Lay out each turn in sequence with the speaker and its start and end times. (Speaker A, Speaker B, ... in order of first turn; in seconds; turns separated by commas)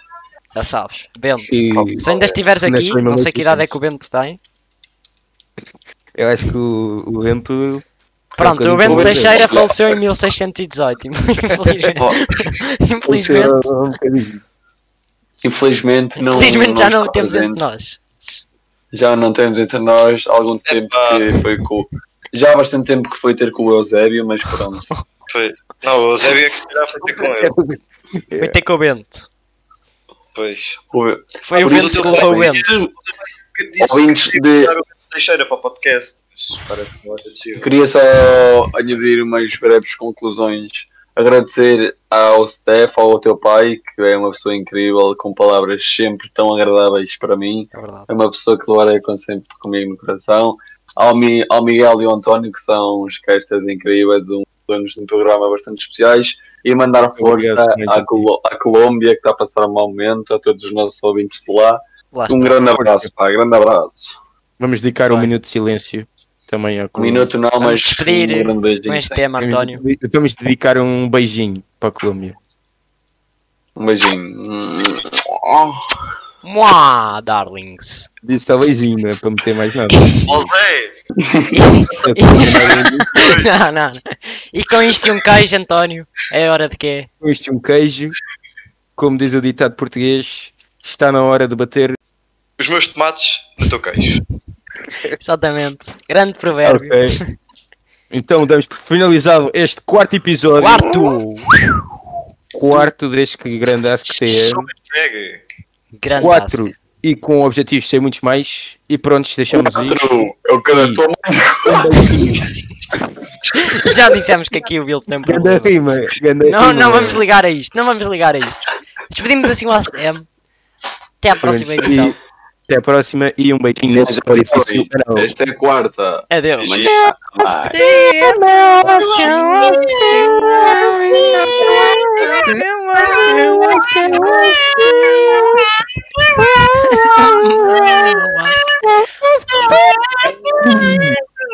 Speaker A: 0.6-4.4, Speaker B: 1.5-3.8, Speaker C: 1.7-2.4, Speaker B: 6.2-7.8, Speaker A: 8.4-13.7, Speaker B: 8.4-9.5, Speaker C: 8.8-10.0, Speaker B: 11.5-11.9, Speaker C: 12.0-12.2, Speaker B: 13.1-14.4, Speaker C: 15.4-17.7, Speaker A: 16.2-18.4, Speaker C: 18.9-24.9, Speaker D: 20.7-21.4, Speaker D: 25.3-27.6, Speaker B: 27.3-28.6, Speaker A: 28.4-29.3, Speaker D: 30.4-30.8, Speaker C: 30.9-32.9, Speaker A: 31.4-32.9, Speaker D: 31.6-32.9, Speaker D: 33.6-37.7, Speaker C: 33.8-34.7, Speaker C: 37.6-64.1, Speaker A: 47.7-48.1, Speaker B: 57.2-58.3, Speaker A: 62.1-62.7, Speaker B: 62.8-63.1, Speaker B: 64.6-67.3, Speaker A: 65.0-65.3, Speaker C: 67.0-69.2, Speaker A: 67.6-69.8, Speaker B: 69.4-72.4, Speaker C: 73.8-76.0, Speaker A: 76.4-78.1, Speaker B: 78.2-80.5, Speaker A: 79.9-80.2, Speaker D: 80.2-81.0, Speaker C: 81.2-81.5, Speaker A: 81.5-87.1, Speaker B: 81.9-83.3, Speaker D: 83.1-83.5, Speaker B: 87.2-88.2, Speaker B: 89.0-92.0, Speaker D: 92.6-94.2, Speaker A: 95.2-97.2, Speaker B: 96.6-97.2, Speaker B: 98.1-100.9, Speaker A: 100.6-101.8, Speaker B: 102.5-104.7, Speaker D: 104.1-105.4, Speaker A: 106.0-106.7, Speaker B: 106.2-111.0, Speaker C: 109.5-112.5, Speaker B: 111.6-113.3, Speaker A: 113.5-115.8, Speaker B: 115.3-117.2, Speaker A: 116.4-120.3, Speaker A: 121.2-122.2, Speaker B: 121.4-122.2, Speaker B: 122.7-125.3, Speaker C: 123.9-127.8, Speaker A: 126.3-130.8, Speaker B: 128.2-135.7, Speaker C: 128.6-132.4, Speaker A: 131.4-135.4, Speaker B: 136.4-138.0, Speaker A: 136.8-138.8, Speaker B: 138.8-139.8, Speaker D: 139.6-141.1, Speaker B: 140.6-141.2